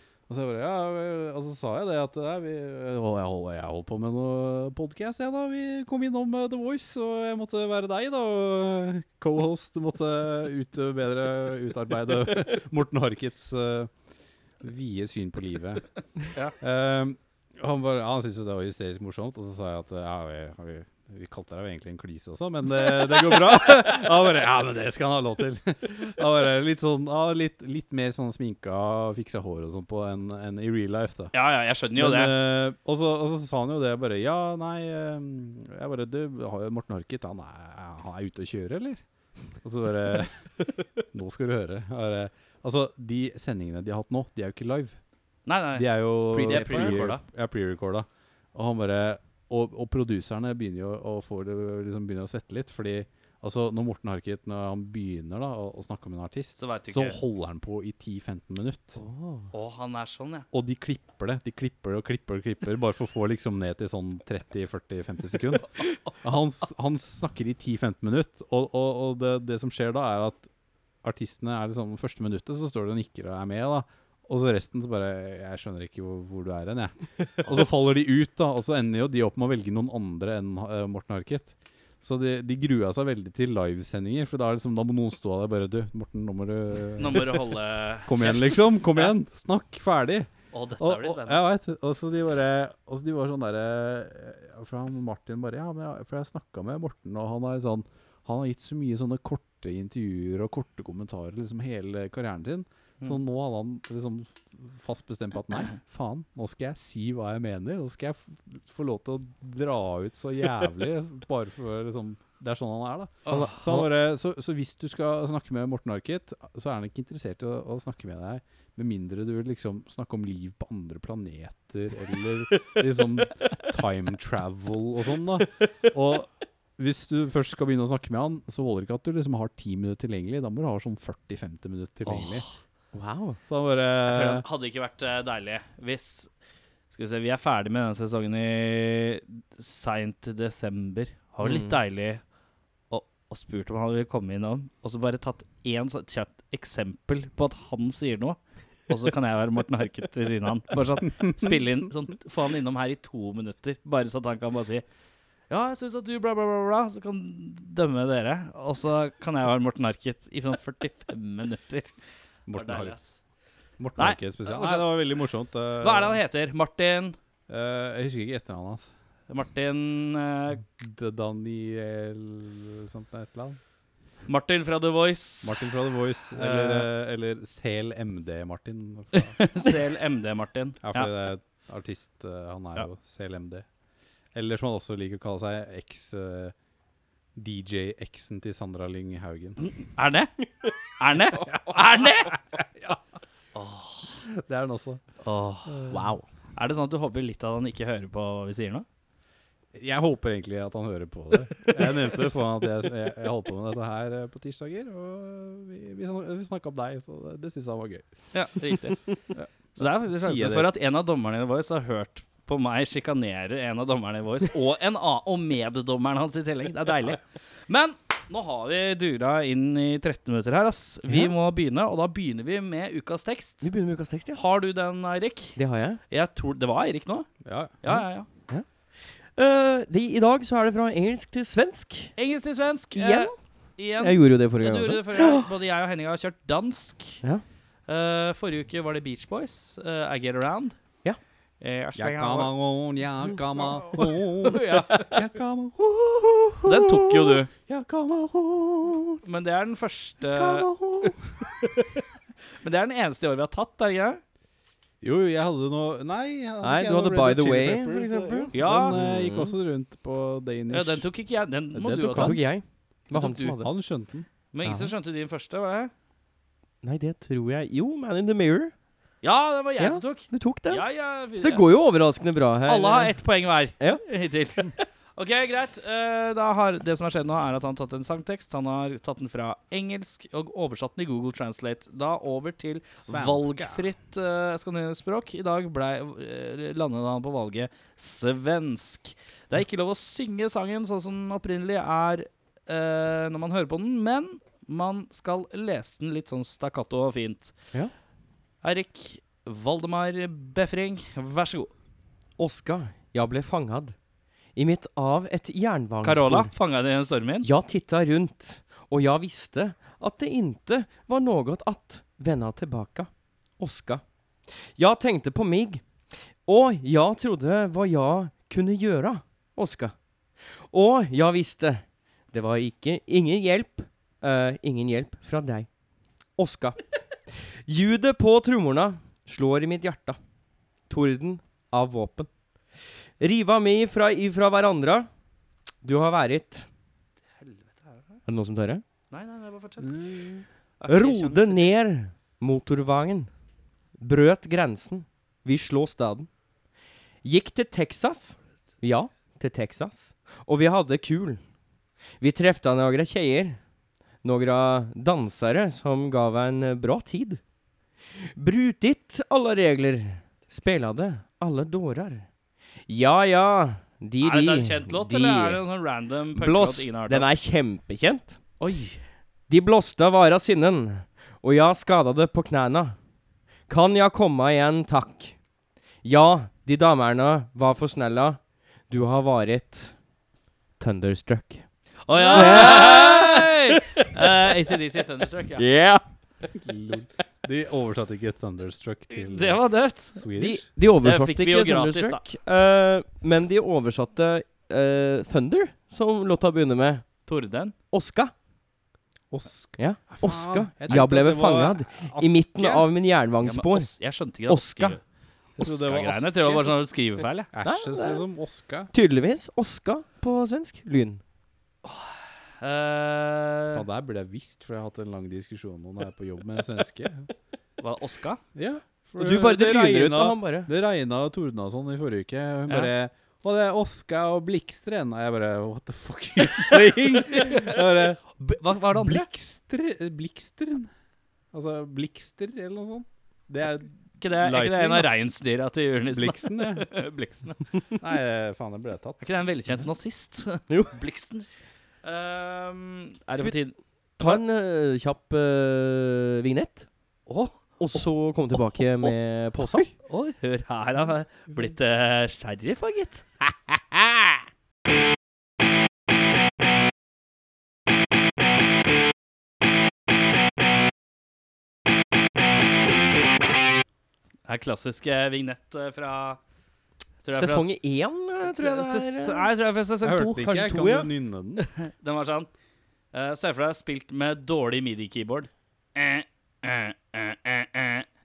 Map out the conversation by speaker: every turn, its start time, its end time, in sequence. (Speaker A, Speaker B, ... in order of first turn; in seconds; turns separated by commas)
Speaker A: 0.3-13.9, Speaker A: 14.6-15.9, Speaker A: 16.6-31.3, Speaker B: 31.3-32.4, Speaker A: 31.9-39.0, Speaker A: 39.5-45.0, Speaker B: 45.5-47.2, Speaker A: 45.8-59.0, Speaker C: 46.3-47.0, Speaker B: 56.6-57.2, Speaker C: 59.0-59.5, Speaker B: 59.5-60.5, Speaker A: 60.5-70.5, Speaker A: 71.0-87.5, Speaker B: 87.0-89.1, Speaker A: 88.0-132.5, Speaker B: 90.5-91.4, Speaker B: 113.3-113.6, Speaker C: 113.3-113.9, Speaker B: 132.1-132.6, Speaker C: 132.9-133.4, Speaker A: 133.5-134.4, Speaker B: 134.0-136.3, Speaker B: 136.9-142.2, Speaker C: 141.4-141.8, Speaker B: 142.9-154.8, Speaker B: 155.5-161.9, Speaker A: 162.5-163.0, Speaker B: 162.5-163.2, Speaker A: 163.8-166.2, Speaker B: 164.0-164.9, Speaker B: 165.8-167.2, Speaker A: 167.5-168.9, Speaker B: 169.3-170.7, Speaker A: 170.7-173.6, Speaker B: 174.3-175.6, Speaker A: 175.4-179.5, Speaker B: 176.3-176.9, Speaker B: 179.1-181.1, Speaker A: 180.8-183.7, Speaker A: 184.3-186.6, Speaker A: 187.3-189.6, Speaker B: 189.6-190.4, Speaker B: 191.0-192.4, Speaker A: 192.5-193.0, Speaker B: 193.6-194.2, Speaker A: 194.2-195.0, Speaker B: 195.2-198.9, Speaker A: 195.7-196.1, Speaker A: 199.7-208.1, Speaker B: 208.3-209.1, Speaker A: 209.3-210.7, Speaker B: 209.7-223.7, Speaker C: 221.1-221.3, Speaker C: 223.6-224.4, Speaker B: 224.3-227.3, Speaker C: 225.6-226.0, Speaker A: 227.4-227.8, Speaker B: 227.8-228.3, Speaker C: 227.9-232.2, Speaker B: 232.2-237.2, Speaker C: 232.9-233.3, Speaker C: 234.0-235.5, Speaker B: 237.9-240.8, Speaker B: 241.6-242.5, Speaker A: 242.0-246.7, Speaker B: 243.8-245.1, Speaker B: 246.7-247.5, Speaker C: 246.9-247.4, Speaker A: 247.7-249.2, Speaker B: 249.2-251.1, Speaker A: 250.3-251.5, Speaker B: 252.6-254.2, Speaker A: 255.0-261.1, Speaker C: 256.6-259.6, Speaker B: 258.5-259.0, Speaker B: 260.7-262.4, Speaker A: 261.7-262.4, Speaker C: 262.2-263.7, Speaker B: 263.1-263.6, Speaker A: 263.6-264.3, Speaker B: 264.5-265.9, Speaker C: 264.6-264.9, Speaker C: 266.8-268.7, Speaker B: 269.2-271.7, Speaker C: 269.8-273.2, Speaker B: 272.7-297.6, Speaker C: 273.8-274.0, Speaker A: 283.0-283.9, Speaker B: 298.6-301.7, Speaker C: 302.4-304.0, Speaker C: 304.6-306.5, Speaker B: 306.0-307.5, Speaker C: 307.4-325.7, Speaker C: 326.4-330.2, Speaker C: 330.9-335.1, Speaker C: 335.8-336.7, Speaker B: 337.4-338.2, Speaker C: 338.3-338.8, Speaker B: 339.1-340.2, Speaker A: 339.9-340.4, Speaker B: 340.8-341.8, Speaker C: 340.9-343.3, Speaker C: 344.0-346.3, Speaker C: 347.2-351.4, Speaker C: 352.2-353.6, Speaker C: 354.2-357.4, Speaker C: 358.1-362.3, Speaker C: 362.9-365.6, Speaker B: 364.2-367.3, Speaker C: 366.4-368.4, Speaker B: 368.6-369.0, Speaker C: 369.5-373.0, Speaker C: 373.7-375.4, Speaker C: 376.0-379.9, Speaker C: 380.8-381.7, Speaker B: 382.1-385.7, Speaker C: 382.2-384.2, Speaker C: 385.6-386.0, Speaker A: 386.6-390.7, Speaker B: 389.1-390.3, Speaker C: 390.4-397.2, Speaker B: 391.0-392.3, Speaker B: 397.3-397.7, Speaker C: 397.9-398.3, Speaker A: 399.3-402.9, Speaker C: 399.8-403.9, Speaker B: 403.4-405.0, Speaker C: 404.5-405.0, Speaker A: 405.6-406.8, Speaker B: 405.6-407.5, Speaker A: 407.5-408.9, Speaker C: 407.6-408.2, Speaker C: 408.9-411.2, Speaker B: 411.8-413.9, Speaker A: 413.7-417.3, Speaker B: 417.8-418.4, Speaker A: 418.6-428.3, Speaker C: 419.2-420.7, Speaker B: 427.2-427.8, Speaker B: 428.4-429.3, Speaker A: 428.9-430.9, Speaker A: 431.5-435.1, Speaker B: 434.2-437.7, Speaker A: 436.1-436.9, Speaker A: 438.0-439.4, Speaker B: 439.2-441.5, Speaker C: 440.7-440.9, Speaker B: 442.0-444.4, Speaker C: 444.2-446.9, Speaker B: 447.3-448.0, Speaker C: 447.8-449.9, Speaker B: 450.0-453.3, Speaker B: 464.5-466.4, Speaker B: 467.2-467.7, Speaker C: 467.3-469.5, Speaker B: 468.4-470.5, Speaker A: 470.0-471.6, Speaker C: 470.4-471.1, Speaker B: 471.6-472.5, Speaker B: 473.1-478.1